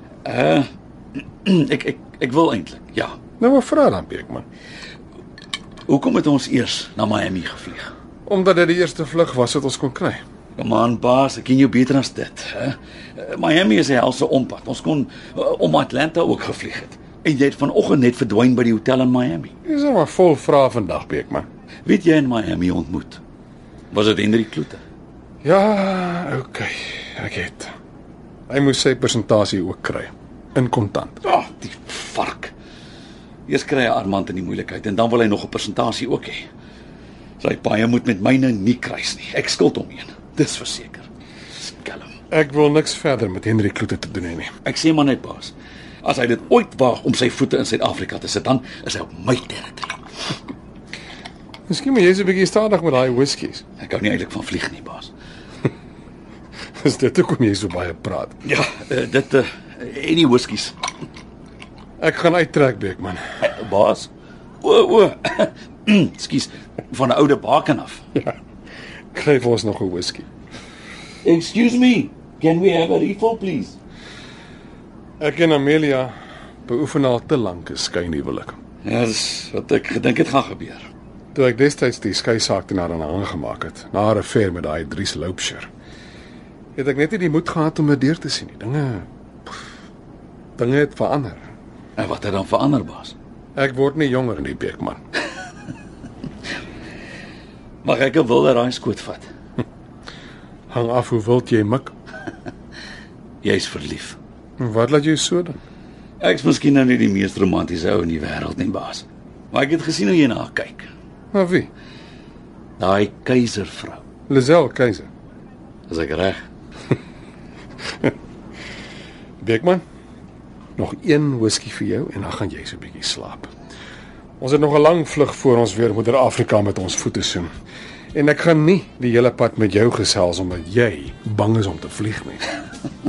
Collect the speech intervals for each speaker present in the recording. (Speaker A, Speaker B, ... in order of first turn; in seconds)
Speaker A: 0.2-0.7, 1.2-3.2, 5.9-7.9, 10.6-19.5, 21.8-23.2, 23.9-24.8, 31.2-32.5, 33.5-36.5, 37.4-41.1, 41.6-42.1, 44.6-50.0, 53.8-55.1, 58.4-60.7, 63.4-64.1, 64.6-68.0, 71.2-73.8, 78.8-80.8, 92.0-93.1, 97.8-99.3, 103.4-104.2, 106.2-110.9, 112.8-114.0, 115.9-116.4
Speaker B: 3.4-4.4, 8.2-10.2, 19.6-21.5, 25.4-27.7, 28.5-31.2, 42.3-44.5, 51.7-53.6, 56.8-58.4, 62.0-63.2, 69.1-70.3, 75.2-76.1, 76.7-78.6, 81.3-85.7, 86.8-89.6, 90.6-91.5, 93.5-95.0, 100.7-101.9, 104.6-105.6, 111.3-111.7, 114.3-115.1, 119.4-119.8, 120.8-123.5, 124.4-127.5, 128.1-132.4